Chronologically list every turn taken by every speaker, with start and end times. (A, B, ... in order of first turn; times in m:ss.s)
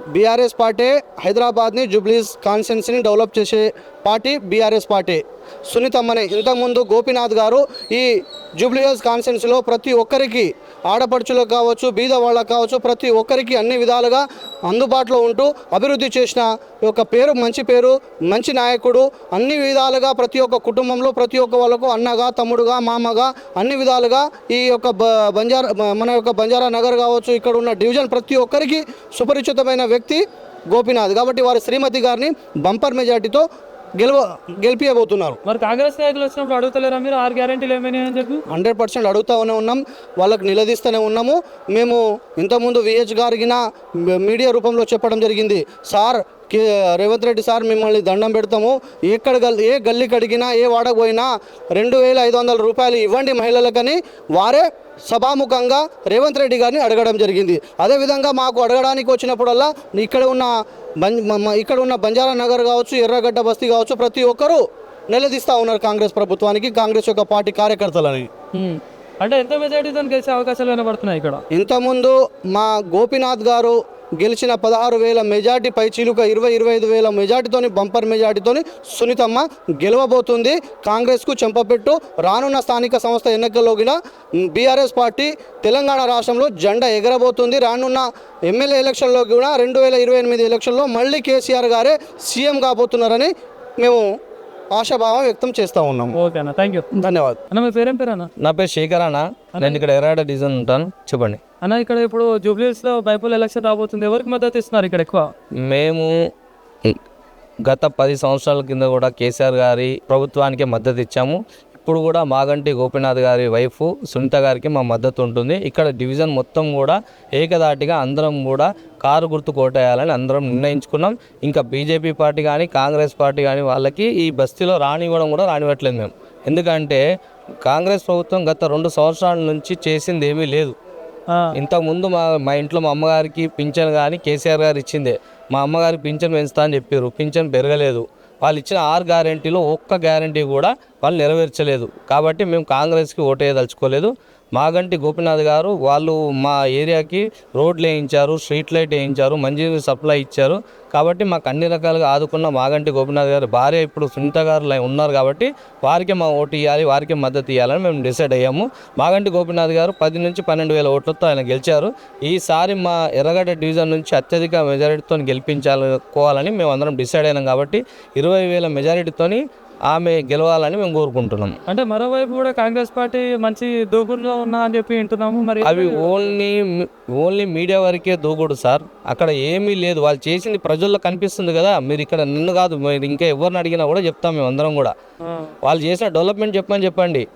0:00.1-0:33.4 A
0:34.0-0:35.4 A
0:35.5-0:38.4 B
0:38.5-0:43.6 A
0:44.1-1:08.3 A
1:08.6-1:11.4 B
1:11.5-1:24.0 A
1:24.5-1:34.1 A
1:34.7-1:36.2 A
1:36.2-1:36.9 B
1:37.0-1:37.4 A
1:37.5-1:38.3 B
1:38.4-1:41.4 C
1:41.6-1:45.3 B
1:45.6-1:46.1 C
1:47.7-2:07.0 C
2:07.6-2:10.8 C
2:11.6-2:51.6 C
2:51.7-2:56.0 B
2:55.6-3:04.9 C
3:05.2-3:05.5 B
3:05.6-3:07.3 C